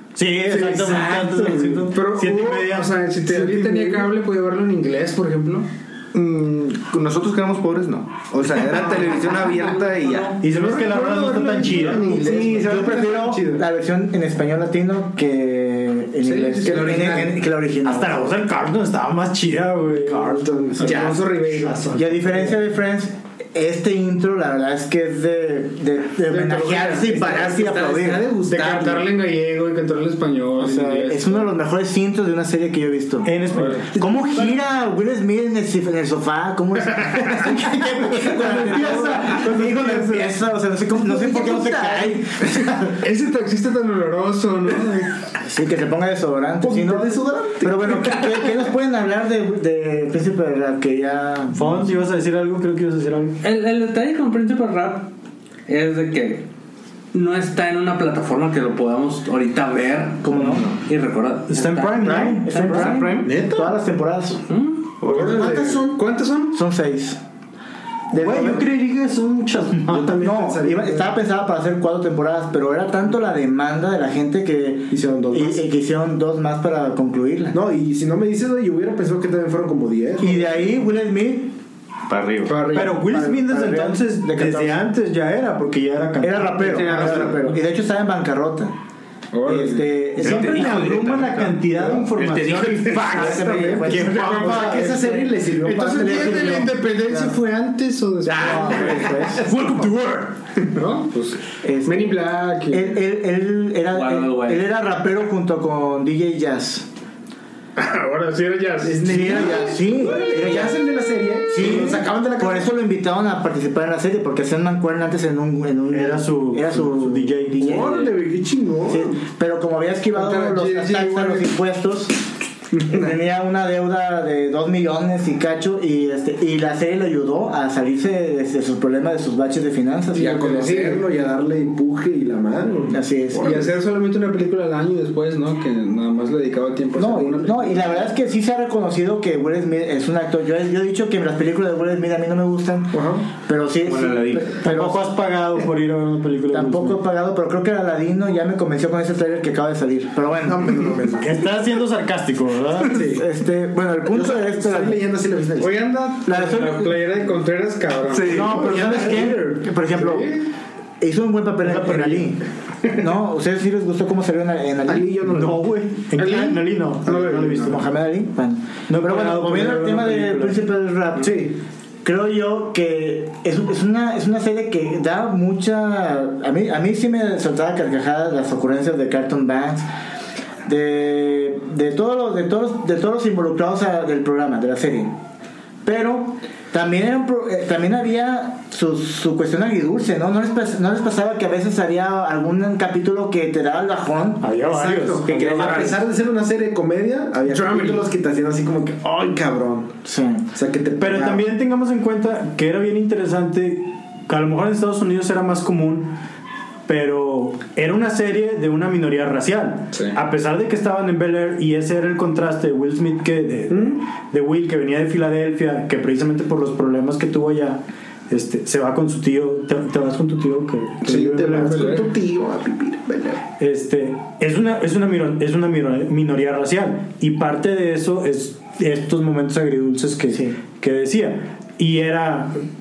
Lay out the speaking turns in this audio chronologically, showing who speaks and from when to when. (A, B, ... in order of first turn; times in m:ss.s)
0:00.1-0:03.9 A
0:00.5-0:01.9 B
0:01.9-0:05.7 C
0:03.6-0:04.0 D
0:06.1-0:10.4 E
0:08.8-0:09.1 D
0:10.4-0:12.1 A
0:10.4-0:13.6 D
0:10.9-0:12.7 C
0:12.1-0:18.3 B
0:16.2-0:17.4 C
0:16.6-0:17.4 D
0:17.8-0:21.1 A
0:20.0-0:22.5 D
0:20.8-0:22.1 C
0:22.0-0:28.3 B
0:26.3-0:29.1 D
0:26.4-0:27.0 C
0:28.5-0:31.5 C
0:30.6-0:43.0 B
0:33.2-0:33.9 A
0:34.0-0:34.6 D
0:37.4-0:40.4 D
0:40.9-0:42.6 D
0:43.0-0:45.2 C
0:45.4-0:51.9 B
0:46.6-0:48.5 D
0:51.5-0:53.4 A
0:53.4-0:55.1 F
0:55.7-0:56.5 F
0:57.1-1:02.2 F
1:00.2-1:00.7 B
1:01.5-1:03.1 A
1:02.0-1:04.4 B
1:02.0-1:03.3 E
1:03.2-1:03.8 D
1:04.5-1:04.9 F
1:05.0-1:06.6 C
1:05.0-1:06.0 D
1:06.5-1:07.2 B
1:08.1-1:08.6 B
1:08.1-1:10.1 A
1:09.9-1:11.1 D
1:10.0-1:17.6 B
1:14.9-1:15.6 D
1:17.5-1:20.6 D
1:20.2-1:21.5 B
1:22.1-1:22.7 E
1:22.5-1:22.9 C
1:22.7-1:24.8 B
1:22.7-1:26.9 A
1:26.2-1:28.7 B
1:26.6-1:27.5 C
1:29.3-1:29.9 C
1:29.4-1:30.8 B
1:30.2-1:33.0 A
1:30.2-1:33.8 E
1:32.9-1:36.7 D
1:33.0-1:35.3 B
1:33.9-1:34.6 A
1:34.1-1:34.7 C
1:35.6-1:39.4 C
1:35.9-1:37.4 B
1:38.3-1:40.3 D
1:38.5-1:39.3 B
1:39.6-1:39.9 E
1:40.7-1:43.0 C
1:41.6-1:46.9 B
1:43.9-1:44.7 F
1:47.8-1:49.4 C
1:48.8-1:52.7 D
1:49.0-1:50.9 B
1:51.5-1:58.1 B
1:55.9-1:57.9 A
1:57.6-1:59.2 D
1:58.9-2:02.2 B
2:00.1-2:01.5 C
2:02.9-2:10.4 B
2:10.1-2:11.0 C
2:10.2-2:13.7 D
2:12.9-2:13.6 B
2:13.4-2:18.1 C
2:17.0-2:25.1 B
2:22.9-2:23.3 D
2:23.8-2:24.6 E
2:24.6-2:27.0 A
2:26.5-2:31.0 B
2:30.4-2:31.4 D
2:31.2-2:33.0 A
2:32.9-2:33.3 D
2:33.0-2:35.0 B
2:34.0-2:35.9 D
2:35.6-2:38.5 C
2:36.3-2:37.0 B
2:38.1-2:38.6 E
2:38.3-2:39.7 D
2:38.3-2:40.4 B
2:39.9-2:40.5 C
2:41.0-2:42.4 B
2:41.6-2:42.3 A
2:43.0-2:45.3 B
2:44.8-2:45.6 D
2:45.3-2:47.9 A
2:46.2-2:46.7 C
2:47.1-2:47.6 D
2:47.5-2:51.5 B
2:48.9-2:50.7 A
2:51.2-2:51.6 D
2:52.0-2:59.9 B
3:00.6-3:05.1 B
3:05.8-3:14.5 B
3:14.4-3:16.0 A
3:14.6-3:20.0 D
3:17.4-3:18.0 C
3:20.0-3:20.4 B
3:20.5-3:21.4 D
3:21.0-3:26.2 A
3:26.9-3:42.0 A
3:33.7-3:34.0 D
3:41.0-3:43.4 D
3:41.6-3:42.1 C
3:43.6-3:52.6 A